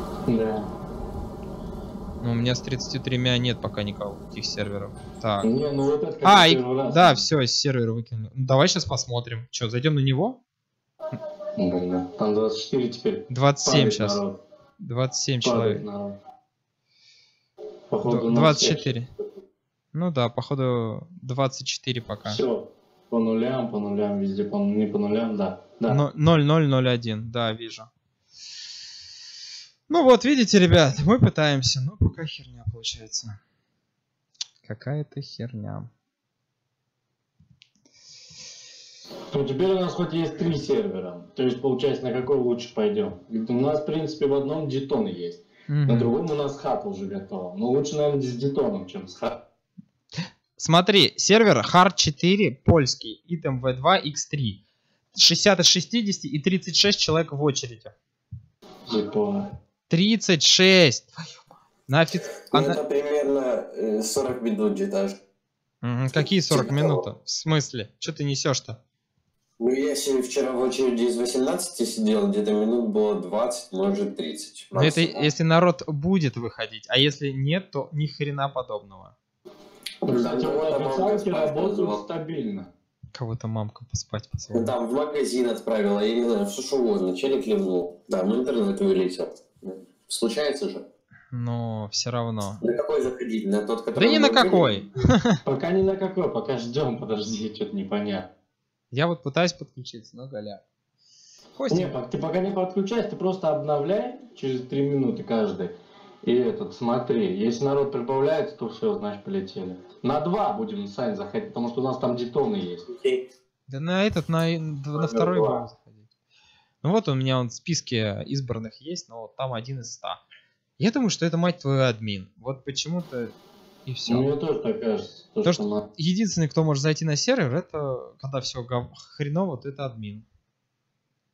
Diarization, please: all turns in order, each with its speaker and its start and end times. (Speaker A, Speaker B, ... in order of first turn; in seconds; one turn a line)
Speaker A: 0.3-0.7
Speaker B: 2.2-5.5
Speaker A: 5.4-7.3
Speaker B: 6.2-10.4
Speaker A: 11.6-14.3
Speaker B: 13.3-14.2
Speaker B: 14.8-15.8
Speaker A: 15.4-16.1
Speaker A: 17.9-18.9
Speaker B: 18.1-19.1
Speaker B: 19.9-22.4
Speaker A: 22.2-26.0
Speaker B: 25.9-27.9
Speaker B: 29.9-33.4
Speaker B: 34.6-35.9
Speaker A: 39.3-49.3
Speaker B: 45.7-46.1
Speaker B: 50.6-54.6
Speaker B: 55.1-57.9
Speaker A: 58.9-59.5
Speaker B: 59.9-61.3
Speaker B: 61.9-62.8
Speaker C: 62.5-65.2
Speaker B: 65.8-68.8
Speaker C: 66.2-67.0
Speaker C: 69.6-75.3
Speaker B: 74.8-79.1
Speaker C: 80.0-82.0
Speaker A: 80.1-82.7
Speaker B: 83.1-84.7
Speaker C: 84.5-90.8
Speaker B: 91.3-92.6
Speaker C: 92.6-94.8
Speaker B: 93.9-95.4
Speaker A: 95.4-98.3
Speaker B: 98.9-100.6
Speaker B: 101.6-101.9
Speaker A: 101.7-112.9
Speaker C: 112.9-113.2
Speaker B: 113.7-116.1
Speaker A: 115.0-115.6
Speaker B: 116.8-120.2
Speaker B: 120.8-123.3
Speaker B: 123.8-124.3
Speaker A: 124.1-125.8
Speaker B: 125.4-130.2